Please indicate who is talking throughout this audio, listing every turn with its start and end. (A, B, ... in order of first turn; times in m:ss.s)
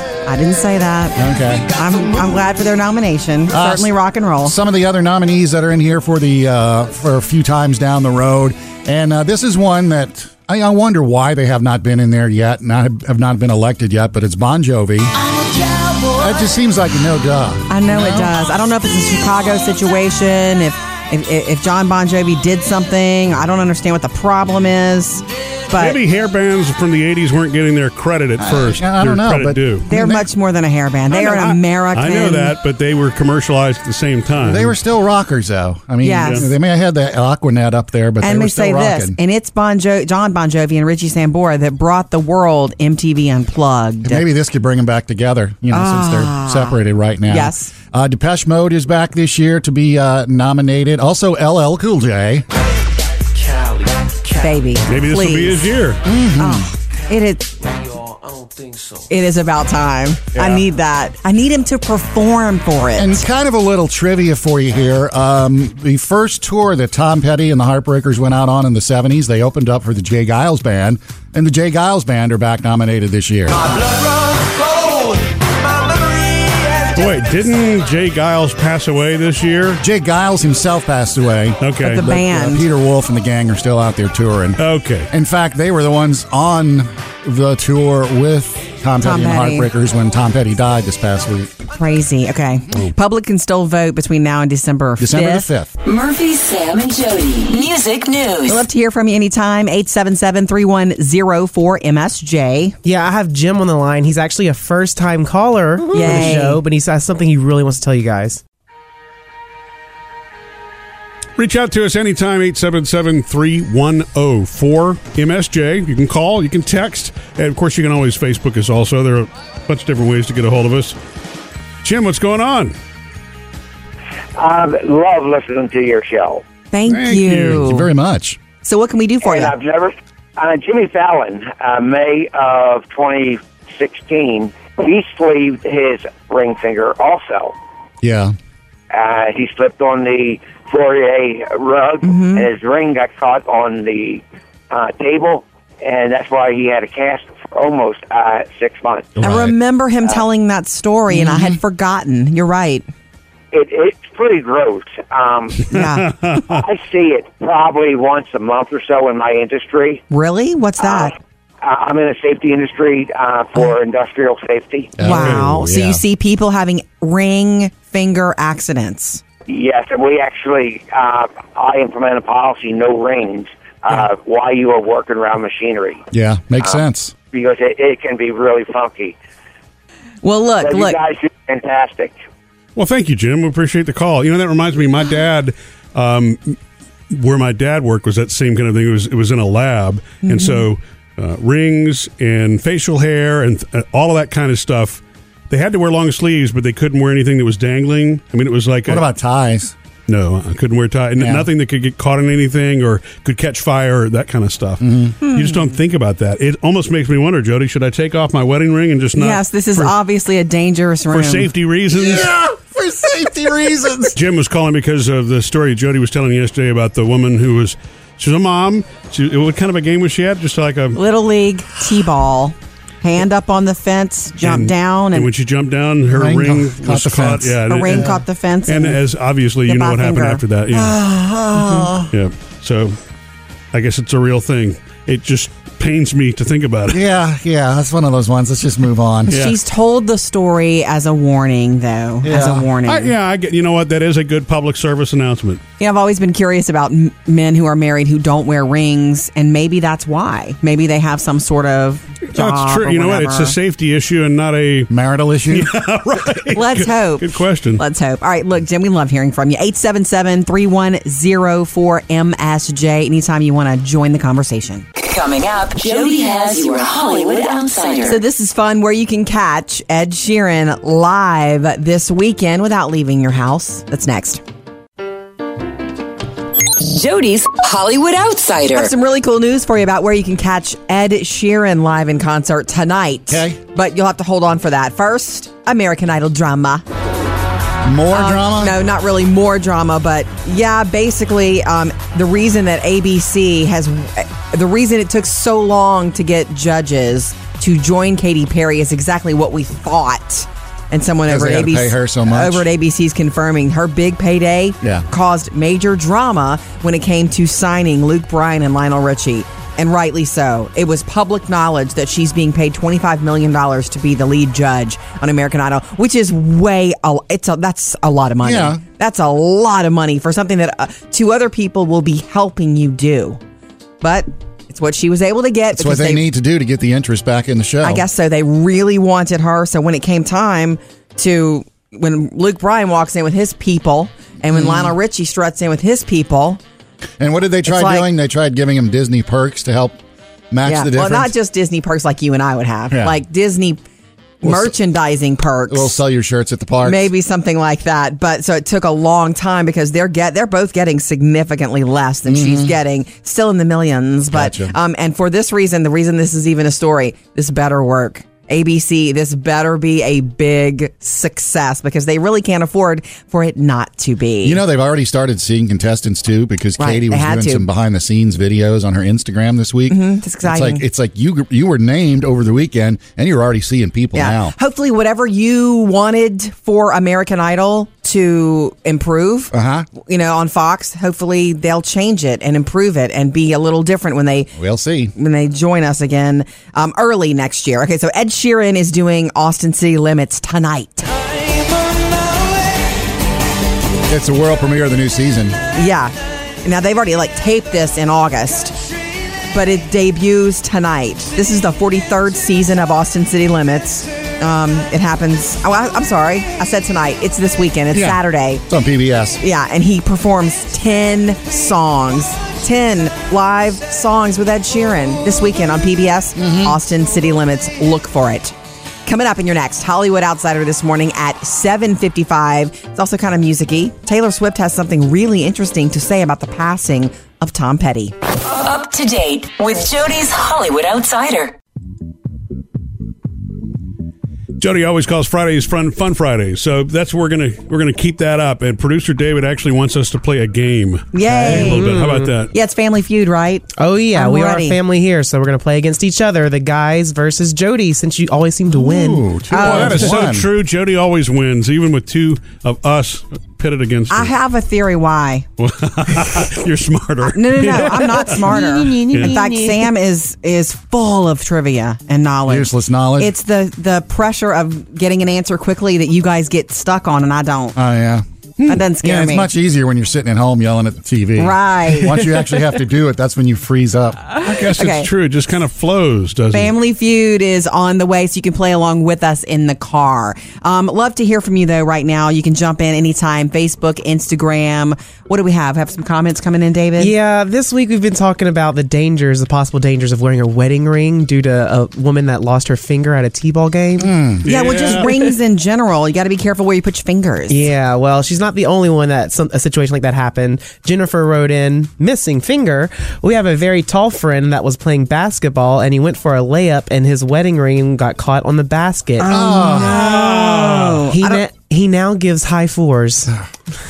0:00.2-0:04.5 A
0:01.2-0:01.7 B
0:02.0-0:02.3 C
0:03.5-0:15.1 B
0:15.2-0:16.4 C
0:16.2-0:18.3 B
0:17.7-0:26.0 A
0:25.7-0:29.8 D
0:28.4-0:30.3 B
0:29.9-0:32.6 A
0:31.1-0:34.7 D
0:34.4-0:39.2 B
0:36.0-0:36.4 A
0:38.2-0:44.2 A
0:44.0-0:52.4 B
0:45.7-0:47.7 A
0:53.3-0:54.6 C
0:54.4-0:55.6 A
0:54.9-0:56.0 D
0:56.0-0:56.7 B
0:56.4-0:57.5 A
0:57.6-0:59.1 C
0:59.1-1:03.2 A
1:00.3-1:00.6 B
1:03.0-1:13.6 B
1:13.5-1:17.2 C
1:16.9-1:19.8 D
1:19.8-1:31.5 B
1:21.6-1:22.0 D
1:21.8-1:22.6 A
1:24.6-1:25.1 D
1:29.0-1:29.7 A
1:31.7-1:35.5 A
1:35.0-1:35.7 B
1:35.8-1:38.6 E
1:38.4-1:42.8 A
1:42.8-1:48.4 F
1:45.9-1:46.6 A
1:51.4-2:01.0 D
2:01.8-2:02.7 D
2:04.4-2:06.4 G
2:06.7-2:07.9 A
2:06.8-2:07.6 D
2:07.5-2:08.4 B
2:08.6-2:09.5 A
2:09.2-2:17.5 G
2:18.0-2:18.3 B
2:18.9-2:29.2 G
2:22.0-2:22.5 A
2:29.2-2:29.5 B
2:29.2-2:32.8 A
2:31.1-2:31.6 B
2:33.5-2:35.8 G
2:35.7-2:36.1 A
2:36.0-2:36.6 D
2:36.4-2:40.0 G
2:40.1-2:41.1 A
2:40.8-2:45.0 G
2:45.0-2:46.0 B
2:45.0-2:49.2 A
2:45.0-2:45.4 D
2:49.5-2:56.0 G
2:56.1-2:57.1 B
2:57.3-2:59.2 G
3:00.2-3:01.0 A
3:00.6-3:02.1 G
3:02.8-3:06.6 D
3:07.1-3:19.0 D
3:10.2-3:10.6 A
3:18.9-3:19.7 B
3:20.1-3:29.9 D
3:21.2-3:21.5 B
3:24.8-3:25.2 B
3:25.2-3:25.7 A
3:29.2-3:31.5 A
3:31.1-3:32.3 D
3:31.9-3:34.2 B
3:34.1-3:41.0 D
3:40.9-3:45.3 A
3:44.4-3:51.0 D
3:46.1-3:48.2 B
3:47.7-3:49.0 A
3:49.6-3:50.4 A
3:50.7-3:52.1 B
3:51.5-3:51.9 A
3:52.1-3:53.0 D
3:53.7-3:57.0 D
3:56.9-3:59.4 B
3:59.3-4:03.1 A
3:59.3-3:59.6 D
4:02.2-4:02.7 B
4:02.8-4:05.6 D
4:05.8-4:13.5 A
4:12.3-4:14.9 D
4:14.9-4:15.7 B
4:15.5-4:17.8 D
4:16.5-4:24.8 A
4:25.0-4:28.2 E
4:28.0-4:34.4 A
4:36.8-4:38.9 E
4:38.7-4:46.8 A
4:43.3-4:43.6 B
4:47.8-4:48.8 B
4:48.1-5:23.4 A
5:01.3-5:02.6 B
5:18.4-5:18.8 B
5:24.0-5:26.2 A
5:25.8-5:28.0 B
5:27.8-5:36.6 A
5:34.5-5:34.9 B
5:37.2-5:40.0 B
5:37.6-5:38.1 A
5:40.5-5:41.3 B
5:40.6-5:43.8 A
5:44.4-5:46.0 A
5:44.4-5:44.7 B
5:45.7-5:47.1 B
5:46.8-6:04.6 A
5:52.3-5:52.7 B
5:54.3-5:54.7 B
6:04.4-6:14.5 B
6:06.8-6:07.6 A
6:09.9-6:10.8 A
6:14.1-6:24.5 A
6:19.5-6:19.9 B
6:24.6-6:25.1 B
6:25.1-6:31.1 A
6:34.1-6:35.6 B
6:35.7-6:38.8 A
6:39.5-6:48.6 A
6:47.9-6:49.4 B
6:49.4-6:58.5 A
6:56.4-6:56.8 B
6:59.0-7:08.1 A
7:08.4-7:11.5 E
7:14.6-7:22.5 D
7:21.1-7:21.9 A
7:21.5-7:22.3 F
7:22.5-7:24.8 A
7:23.8-7:29.3 F
7:28.7-7:30.5 B
7:29.5-7:30.1 A
7:29.5-7:34.3 D
7:34.1-7:35.4 A
7:35.6-7:38.4 D
7:37.2-7:47.8 A
7:38.1-7:39.9 F
7:39.1-7:39.4 D
7:42.5-7:43.3 B
7:47.8-7:54.2 B
7:48.6-7:49.5 A
7:51.4-7:52.4 A
7:54.3-7:55.1 A
7:54.4-7:56.7 D
7:56.5-8:07.1 A
8:07.0-8:14.2 F
8:14.0-8:14.4 B
8:14.4-8:15.1 D
8:14.4-8:17.6 A
8:14.9-8:15.3 F
8:17.5-8:29.4 F
8:29.2-8:31.4 A
8:29.3-8:30.0 B
8:29.9-8:31.0 D
8:31.1-8:33.3 F